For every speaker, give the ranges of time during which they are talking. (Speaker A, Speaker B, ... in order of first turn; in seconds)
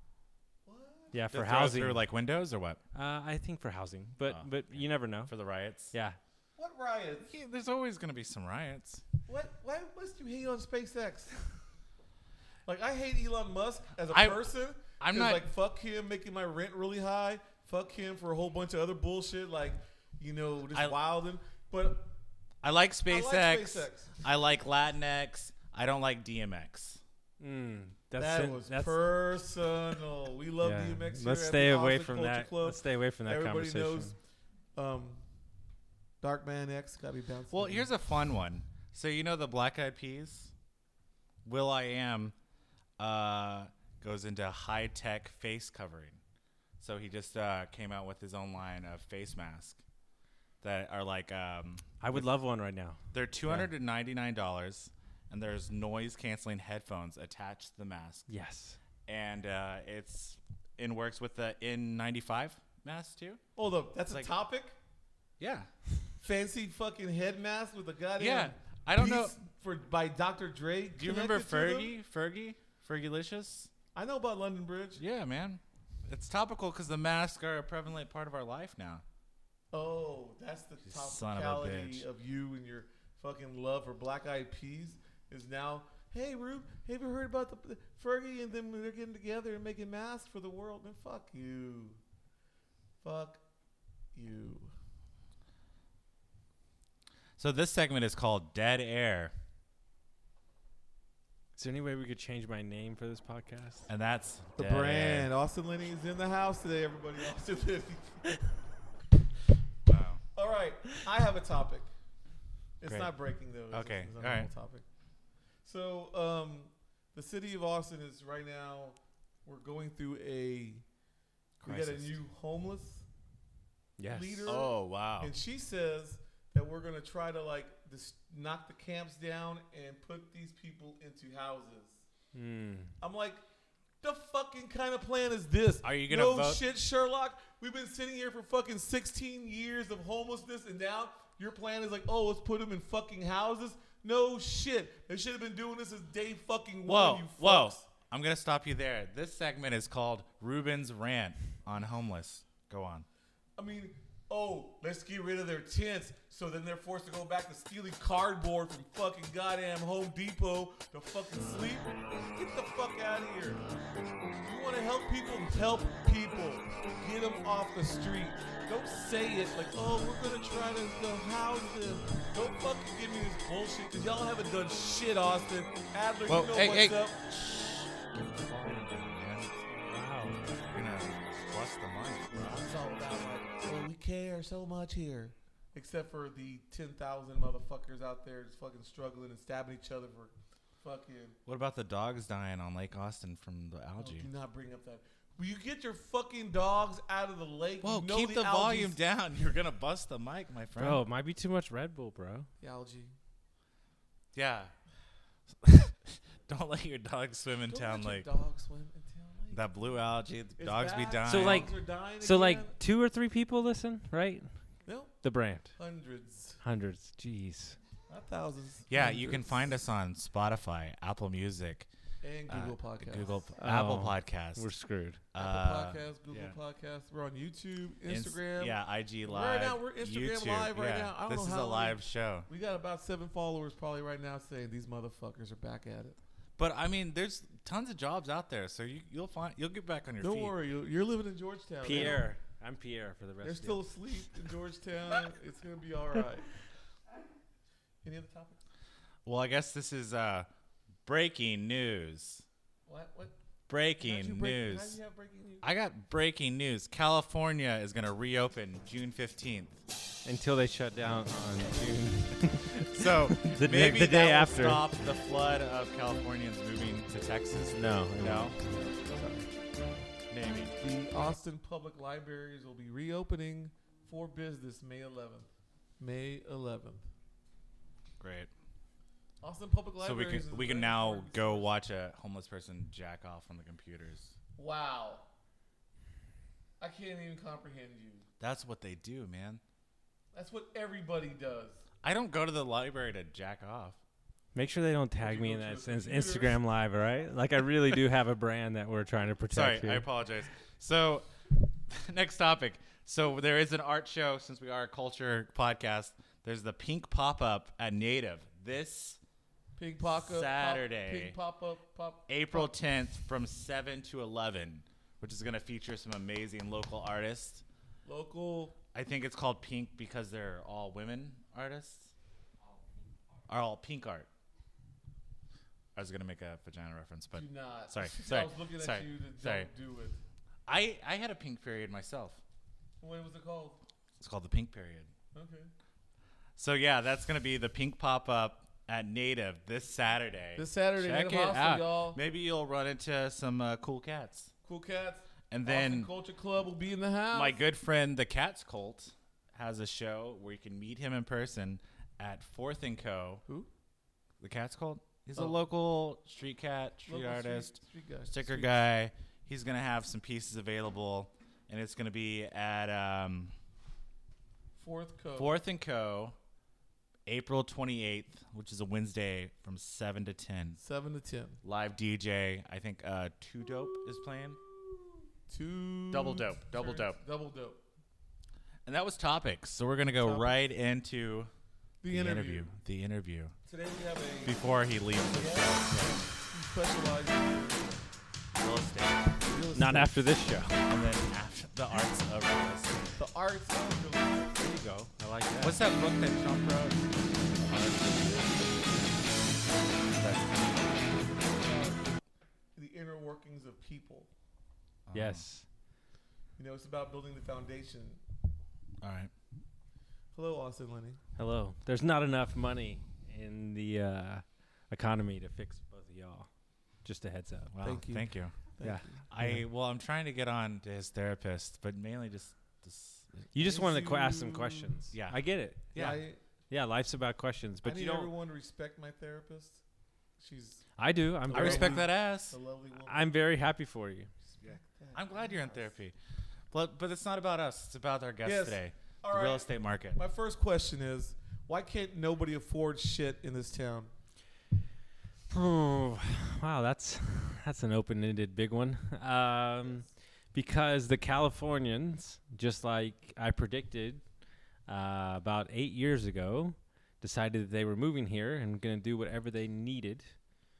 Speaker A: 0.7-1.1, 6.6-7.3, 9.3-11.4, 12.7-22.1, 23.1-24.1, 28.2-34.1, 34.8-35.2, 36.2-37.9, 63.5-64.7, 66.2-71.9, 73.9-75.0, 79.7-92.0, 93.0-93.4, 94.1-94.7, 104.6-108.5, 110.3-111.9, 112.8-114.8, 115.6-120.8, 121.6-123.0, 124.1-132.0, 133.0-133.4, 134.0-147.8, 153.6-163.6, 164.4-177.2, 179.7-179.9, 182.4-191.4, 194.0-199.0, 202.6-203.1, 207.7-209.7, 210.6-212.7, 214.8-215.2, 215.8-216.6, 218.1-219.7, 222.2-223.5, 225.4-236.2, 240.2-242.3, 243.4-246.5, 248.0-248.6, 252.9-253.3, 254.0-255.7, 269.0-269.4, 270.8-277.0, 279.4-281.7, 284.6-285.2, 286.8-288.2, 290.3-291.8, 295.2-296.6, 309.8-312.7, 318.1-318.8, 327.3-330.2, 333.0-333.8, 335.3-335.7, 340.6-342.2, 344.6-347.6, 357.1-358.8, 364.8-365.6, 370.8-371.6, 375.5-377.8, 380.2-380.6, 382.0-382.7, 383.6-384.6, 385.3-388.0, 389.5-390.1, 393.2-394.6, 401.5-402.0, 402.8-404.3, 406.6-408.2, 410.3-411.2, 417.8-419.2, 423.5-425.0, 425.9-426.4, 427.8-429.8, 430.4-430.8, 431.4-433.3, 434.5-435.9, 438.4-444.1
Speaker B: 1.1-2.0, 2.9-5.3, 5.9-6.2, 27.4-29.1, 30.6-34.1, 52.0-53.7, 58.3-58.8, 101.6-103.9, 124.0-124.5, 132.3-132.9, 179.9-180.4, 200.8-202.5, 211.2-214.5, 215.2-215.7, 216.6-217.8, 223.6-225.2, 241.8-243.8, 260.2-264.9, 267.7-268.8, 294.5-300.1, 389.7-390.8, 394.6-395.8, 405.1-405.6, 411.4-416.5, 417.0-417.8, 418.8-419.6, 423.5-426.0, 426.7-428.3, 431.0-432.1, 433.0-434.3, 445.5-454.3, 454.9-460.4
Speaker C: 1.3-2.8, 4.3-5.9, 7.2-9.0, 14.1-14.4, 15.0-15.4, 22.6-27.0, 37.5-40.5, 41.4-42.3, 43.0-46.2, 46.8-49.8, 50.6-52.2, 53.1-58.2, 59.0-63.4, 65.4-65.7, 68.2-69.3, 71.0-73.7, 75.0-79.0, 80.8-82.0, 97.4-99.3, 103.9-105.3, 109.8-110.2, 112.8-113.1, 113.7-114.5, 121.6-122.2, 124.4-125.3, 135.8-136.6, 146.8-153.1, 176.3-179.5, 180.5-182.7, 191.4-194.3, 197.8-201.0, 204.3-204.7, 205.5-208.3, 209.5-211.7, 218.9-221.9, 222.5-224.7, 225.3-226.6, 228.1-232.5, 236.6-240.5, 249.2-250.5, 251.1-252.4, 253.7-255.0, 255.6-259.8, 262.8-268.6, 270.3-270.7, 278.2-278.5, 280.0-284.3, 288.4-289.6, 292.0-294.0, 299.5-301.3, 301.9-309.2, 310.1-311.4, 312.3-317.6, 318.9-322.1, 323.5-324.3, 325.9-329.7, 330.7-332.4, 334.2-335.1, 336.6-344.5, 345.5-346.1, 347.3-353.4, 354.4-363.5, 365.4-366.4, 367.2-370.8, 371.6-374.6, 376.1-377.2, 378.9-381.5, 382.1-383.5, 384.4-386.2, 388.6-389.5, 390.9-393.2, 395.6-399.4, 400.0-401.1, 405.1-405.4, 409.0-409.3, 417.7-418.6, 419.3-423.4, 425.1-425.4, 425.9-426.2, 431.5-432.6, 434.6-436.1, 436.7-440.2